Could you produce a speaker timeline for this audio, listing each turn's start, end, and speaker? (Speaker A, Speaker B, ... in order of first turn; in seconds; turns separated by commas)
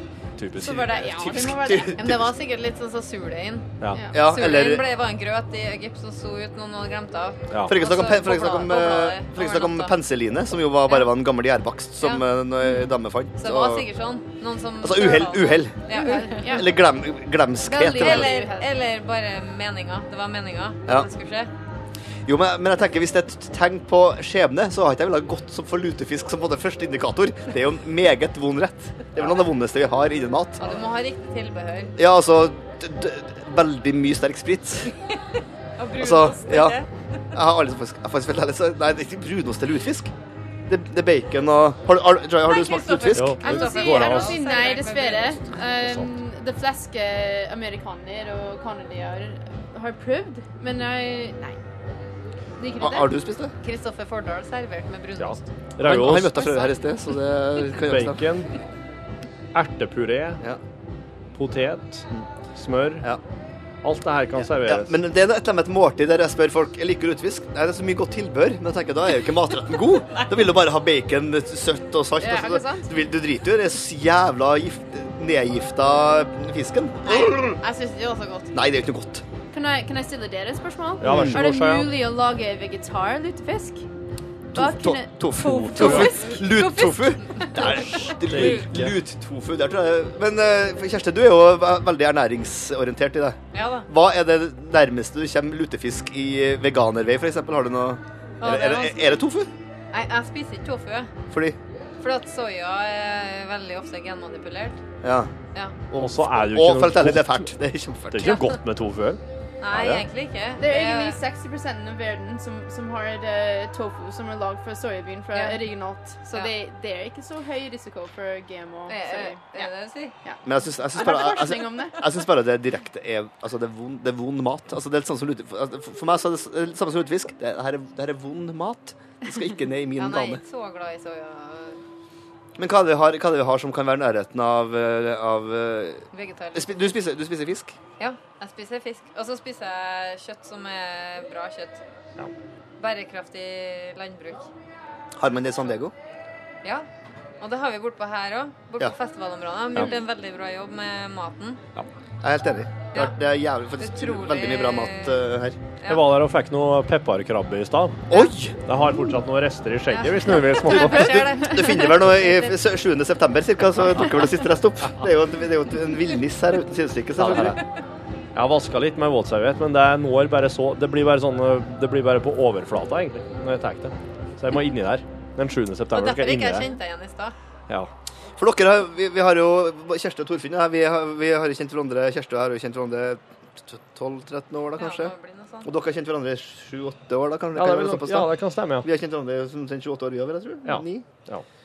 Speaker A: 0.4-0.8, Speaker B: 0.6-2.0, Speaker C: 0.6-2.3, Speaker D: 2.0-9.9, Speaker B: 3.9-4.2, Speaker C: 4.1-4.9, Speaker A: 7.5-7.8, Speaker C: 7.6-13.9, Speaker D: 13.4-16.6, Speaker C: 14.8-18.3, Speaker B: 15.9-16.8, Speaker B: 17.6-18.8, Speaker D: 18.0-21.5, Speaker C: 22.3-30.8, Speaker D: 30.6-31.9, Speaker C: 32.0-34.9, Speaker D: 35.8-36.9, Speaker C: 36.0-36.8, Speaker C: 37.3-40.1, Speaker C: 40.7-43.4, Speaker D: 42.5-45.4, Speaker A: 43.1-44.4, Speaker B: 43.4-51.6, Speaker A: 45.7-46.1, Speaker B: 52.6-53.2, Speaker C: 52.8-53.5, Speaker D: 53.6-55.4, Speaker A: 55.2-56.4, Speaker C: 55.8-58.2, Speaker D: 56.1-56.8, Speaker A: 57.8-58.5, Speaker A: 59.5-60.4, Speaker A: 61.4-63.1, Speaker A: 63.8-64.9, Speaker C: 64.6-77.6, Speaker B: 72.2-72.9, Speaker D: 77.0-78.5, Speaker C: 78.5-79.2, Speaker B: 79.5-83.8, Speaker A: 81.0-82.0, Speaker C: 81.0-81.4, Speaker C: 84.5-99.5, Speaker B: 84.5-86.4, Speaker D: 85.4-88.7, Speaker A: 85.8-86.1, Speaker A: 88.0-89.0, Speaker D: 93.5-93.9, Speaker D: 98.4-99.2, Speaker D: 99.9-101.1, Speaker C: 101.3-101.6, Speaker D: 102.0-104.8, Speaker C: 105.0-105.3, Speaker D: 105.5-105.8, Speaker C: 105.9-108.4, Speaker A: 106.0-107.5, Speaker A: 108.1-110.1, Speaker D: 108.2-108.5, Speaker D: 109.6-111.2, Speaker B: 110.6-119.7, Speaker D: 115.3-115.7, Speaker D: 118.9-120.1, Speaker B: 120.2-122.0, Speaker C: 120.4-130.4, Speaker D: 130.0-131.8, Speaker C: 132.6-137.8, Speaker D: 136.1-136.9, Speaker D: 138.0-141.8, Speaker D: 142.8-144.5, Speaker C: 145.2-145.9, Speaker D: 147.4-151.6, Speaker C: 152.2-155.6, Speaker D: 153.8-155.3, Speaker D: 155.8-156.1, Speaker A: 155.9-158.1, Speaker D: 158.1-158.4, Speaker C: 158.1-158.6, Speaker A: 158.7-161.2, Speaker D: 159.9-162.6, Speaker C: 160.7-167.6, Speaker A: 167.2-167.6, Speaker A: 168.3-176.7, Speaker D: 175.9-177.3, Speaker C: 178.4-191.1, Speaker D: 184.8-185.7, Speaker A: 187.6-188.9, Speaker A: 190.7-191.4